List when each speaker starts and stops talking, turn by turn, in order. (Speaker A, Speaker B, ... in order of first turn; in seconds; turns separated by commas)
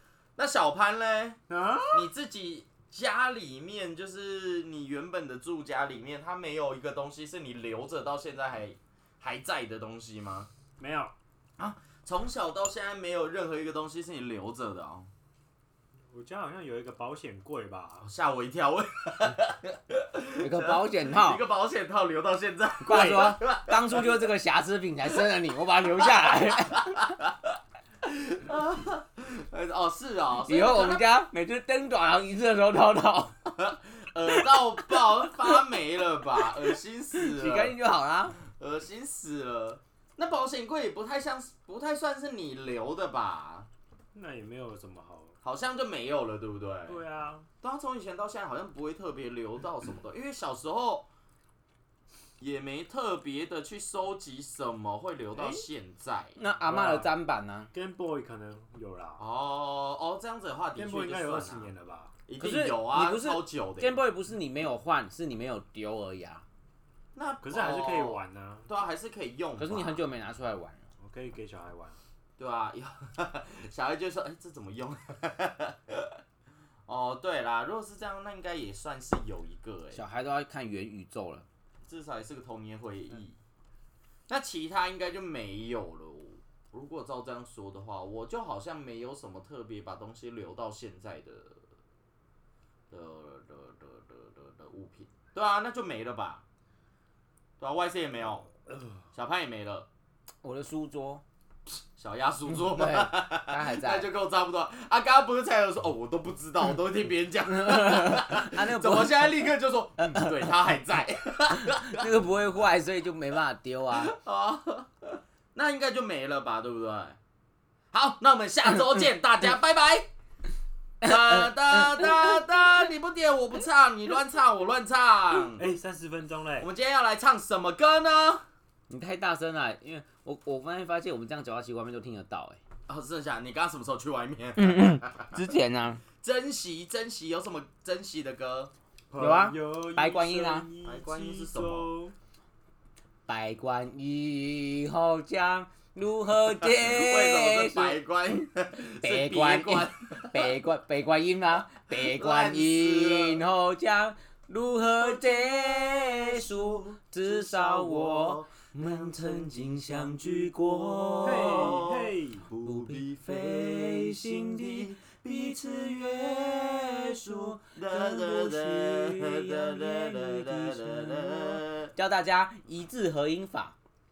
Speaker A: 0.4-1.4, Speaker B: 1.5-2.1, Speaker A: 1.9-10.5, Speaker B: 10.8-11.1, Speaker A: 11.6-15.1, Speaker B: 16.1-18.1, Speaker A: 18.0-24.2, Speaker C: 20.4-21.4, Speaker C: 22.8-27.0, Speaker A: 26.0-31.0, Speaker C: 30.4-33.3, Speaker A: 33.6-37.8, Speaker C: 34.3-34.6, Speaker C: 37.1-38.4, Speaker A: 38.4-43.7, Speaker B: 44.1-45.4, Speaker A: 45.4-47.0, Speaker B: 46.9-47.5, Speaker A: 47.6-51.1, Speaker A: 52.4-56.4, Speaker B: 55.3-55.6, Speaker C: 56.4-57.7, Speaker B: 56.6-57.1, Speaker B: 57.7-59.2, Speaker A: 59.2-61.7, Speaker B: 60.8-62.1, Speaker A: 62.3-64.0, Speaker C: 62.4-66.4, Speaker A: 67.1-70.0, Speaker B: 67.4-68.7, Speaker C: 69.6-70.8, Speaker B: 71.0-72.0, Speaker A: 72.4-76.2, Speaker A: 76.9-80.0, Speaker C: 79.9-81.4, Speaker A: 81.8-83.4, Speaker A: 84.3-91.6, Speaker A: 92.9-96.4, Speaker A: 97.6-98.5, Speaker A: 99.1-99.9, Speaker C: 100.4-101.2, Speaker A: 102.0-112.1, Speaker C: 102.5-104.1, Speaker C: 107.5-109.4, Speaker C: 110.0-110.4, Speaker C: 111.6-114.1, Speaker A: 113.9-117.2, Speaker A: 117.9-120.1, Speaker A: 121.0-125.7, Speaker C: 121.1-122.3, Speaker B: 125.5-126.7, Speaker A: 126.6-128.4, Speaker C: 128.9-132.6, Speaker A: 132.9-135.4, Speaker C: 134.6-136.0, Speaker A: 136.2-138.7, Speaker B: 139.1-142.1, Speaker C: 139.2-140.7, Speaker A: 140.8-141.9, Speaker C: 143.3-148.0, Speaker A: 146.6-150.5, Speaker C: 149.0-161.7, Speaker A: 151.9-153.4, Speaker A: 156.4-159.6, Speaker A: 161.0-171.9, Speaker B: 161.2-162.5, Speaker C: 162.6-173.8